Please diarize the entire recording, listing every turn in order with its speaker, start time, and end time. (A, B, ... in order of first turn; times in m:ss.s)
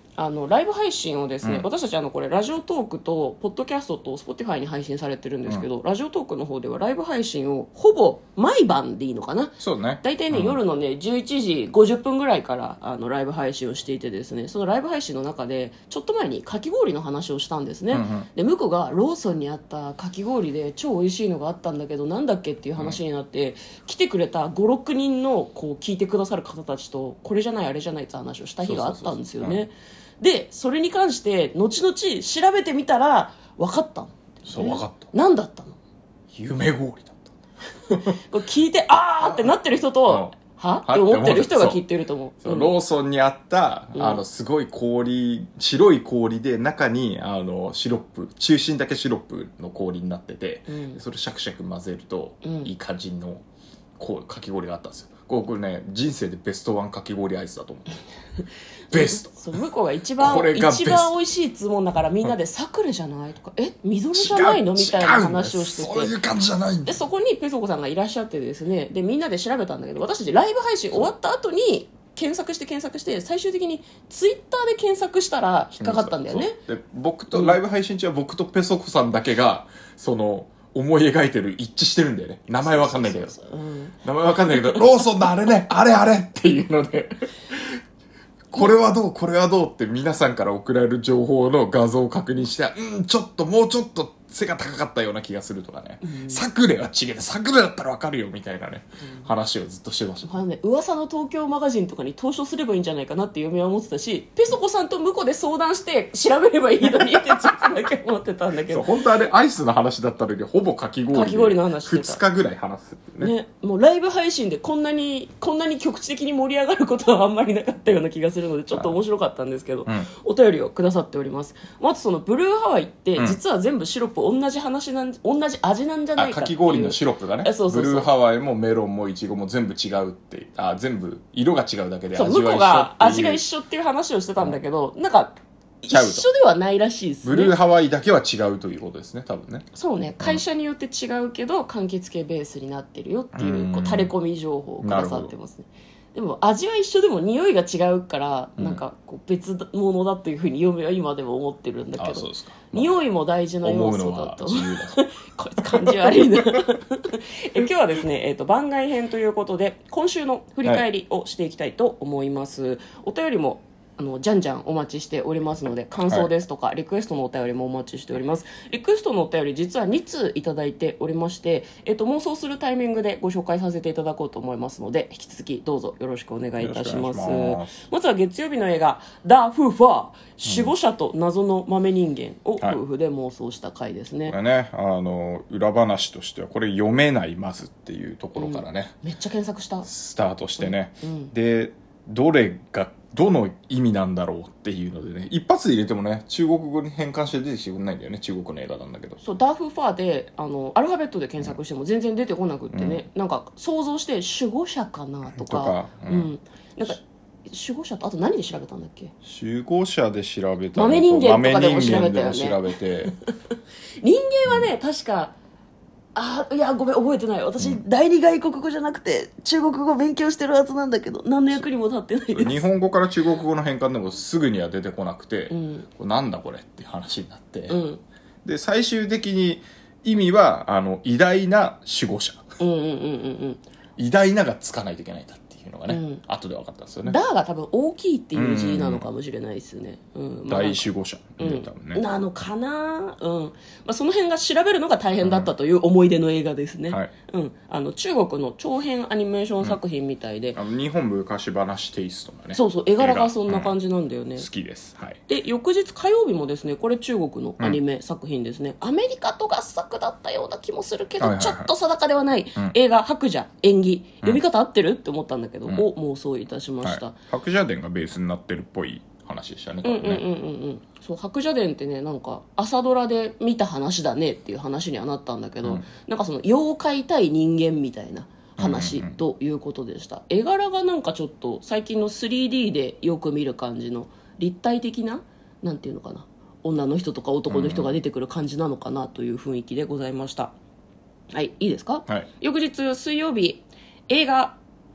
0:00.2-0:35.8 A
0:09.6-0:10.6 B
0:17.9-0:18.3 B
0:28.6-0:29.6 B
0:34.4-0:35.1 B
0:36.3-0:37.3 B
0:38.1-0:42.7 A
0:39.2-0:39.5 B
0:40.1-0:41.8 B
0:42.4-0:53.4 B
0:43.9-0:44.2 A
0:50.7-0:51.0 A
0:52.4-0:52.7 A
0:54.0-0:58.0 B
0:58.9-0:59.6 B
0:58.9-1:06.2 A
1:00.2-1:01.1 B
1:04.1-1:07.0 B
1:06.8-1:16.6 A
1:15.8-1:23.3 B
1:17.3-1:17.6 A
1:22.6-1:24.0 A
1:24.0-1:27.8 B
1:24.5-1:24.8 A
1:28.5-1:40.4 B
1:36.0-1:36.4 A
1:40.2-1:48.9 A
1:46.8-1:47.5 B
1:48.7-1:53.3 B
1:51.1-1:52.2 A
1:53.2-2:08.1 A
2:06.2-2:13.4 B
2:12.1-2:17.6 A
2:15.9-2:16.2 B
2:17.2-2:19.6 B
2:19.7-3:04.3 A
2:23.3-2:24.1 B
2:24.8-2:25.3 B
2:32.0-2:33.0 B
2:33.6-2:35.0 B
2:35.8-2:36.6 B
2:56.6-2:57.7 B
3:00.4-3:00.7 B
3:04.3-3:09.0 B
3:08.4-3:09.9 A
3:09.8-3:19.2 B
3:10.6-3:11.3 A
3:19.2-3:29.1 A
3:22.7-3:23.0 B
3:25.4-3:26.3 B
3:29.2-3:33.1 B
3:30.7-3:32.6 A
3:34.0-3:35.3 A
3:36.1-3:42.6 A
3:42.3-3:47.8 B
3:45.5-3:45.8 A
3:47.7-3:48.0 A
3:48.4-3:52.6 B
3:52.6-3:53.6 A
3:54.0-3:57.2 B
3:55.9-3:56.2 A
3:57.0-4:10.6 A
3:58.3-3:59.1 B
4:00.5-4:02.0 B
4:05.2-4:05.5 B
4:10.5-4:13.8 B
4:12.5-4:14.5 A
4:14.4-4:15.2 B
4:15.3-4:27.1 A
4:21.2-4:21.7 B
4:26.8-4:30.2 B
4:29.8-4:50.5 A
4:38.6-4:39.2 B
4:47.5-4:47.9 B
4:51.3-4:54.6 A